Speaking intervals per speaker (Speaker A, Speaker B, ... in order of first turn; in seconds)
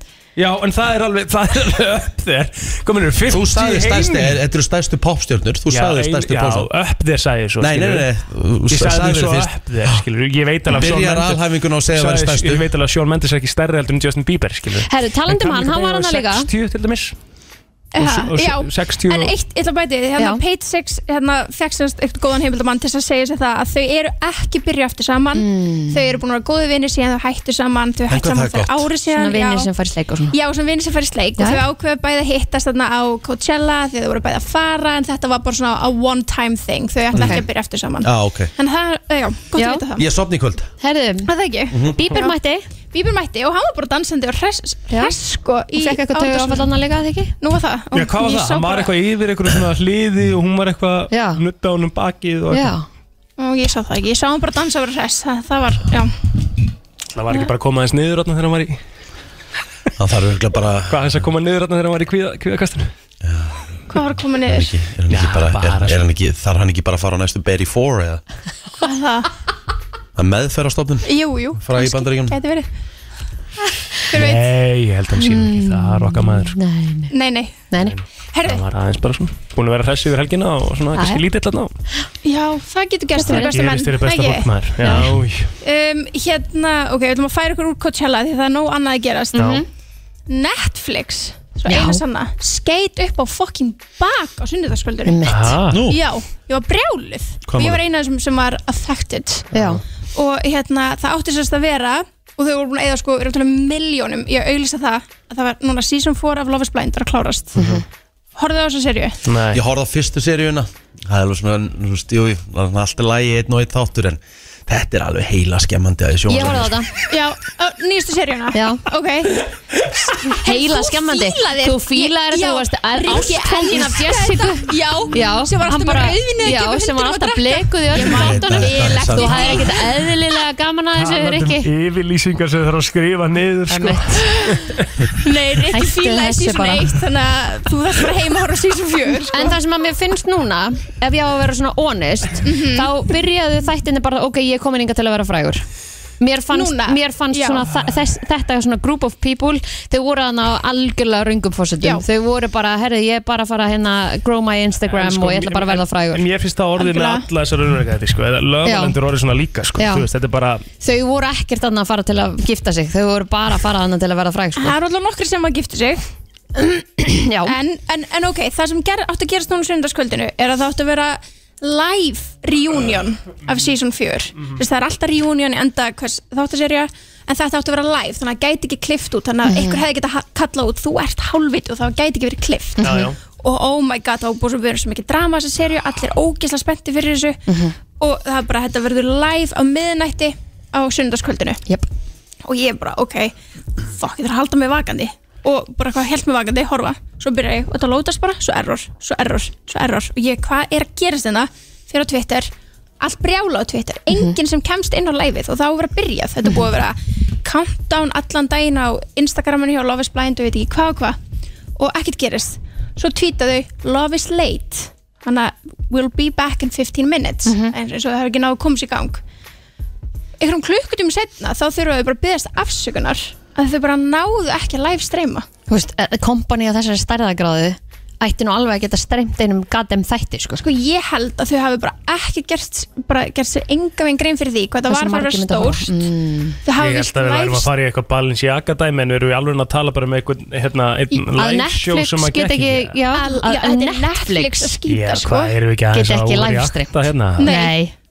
Speaker A: 0.4-4.4, 5.7-8.1, 8.7-17.1, 18.0-19.4, 47.9-52.8, 57.1-58.8, 60.9-62.9, 65.1-66.0, 74.1-76.6, 77.8-81.7, 83.2-85.5, 89.3-89.6, 95.3-95.9, 99.5-99.8, 107.6-107.8, 109.2-109.6, 131.0-134.9, 154.9-160.7, 182.8-183.2, 236.8-243.0, 244.9-247.5
Speaker B: 3.3-6.7, 7.6-10.0, 10.7-12.7, 28.1-28.9, 37.1-37.4, 38.0-38.5, 40.0-40.7, 41.7-42.0, 60.0-61.2, 63.2-63.8, 64.5-68.2, 70.2-72.4, 95.7-96.0, 97.5-97.8, 109.5-116.8, 128.0-129.8
Speaker C: 14.9-16.5, 20.2-20.4, 25.4-26.2, 29.1-30.4, 31.4-31.6, 37.1-37.5, 39.6-39.9, 40.8-41.3, 41.8-42.7, 44.9-45.2, 45.7-47.3, 51.1-51.4, 52.5-52.9, 75.2-77.1, 77.7-78.0, 81.0-81.2, 83.2-83.6, 84.8-85.1, 89.3-89.7, 91.7-92.0, 95.1-95.6, 99.5-99.8, 107.6-107.8, 116.3-116.9, 118.5-118.8, 120.3-131.7, 133.7-134.7, 135.7-136.9, 139.3-145.6, 146.2-156.2, 158.7-159.0, 159.8-160.1, 160.8-164.8, 166.6-167.6, 179.4-179.8, 182.8-183.1, 187.5-187.8, 217.5-217.7, 225.7-230.6, 234.9-236.6, 241.1-244.8, 245.9-247.9
Speaker D: 17.9-29.7, 30.3-40.1, 41.3-42.4, 42.9-46.7, 47.4-48.9, 53.4-56.1, 63.9-64.7, 68.8-69.3, 71.0-72.7, 74.1-74.5, 77.1-77.6, 78.3-78.6, 82.2-84.5, 85.6-89.6, 90.3-95.2, 95.8-99.5, 100.1-107.7, 108.3-109.2, 117.1-119.5, 120.2-129.9, 135.1-139.6, 142.4-142.9, 146.5-147.7, 156.8-157.3, 164.6-166.0, 167.4-191.6, 192.4-211.2, 211.8-219.2, 220.4-225.5, 230.6-235.9, 236.7-237.7, 243.1-245.6, 247.4-247.8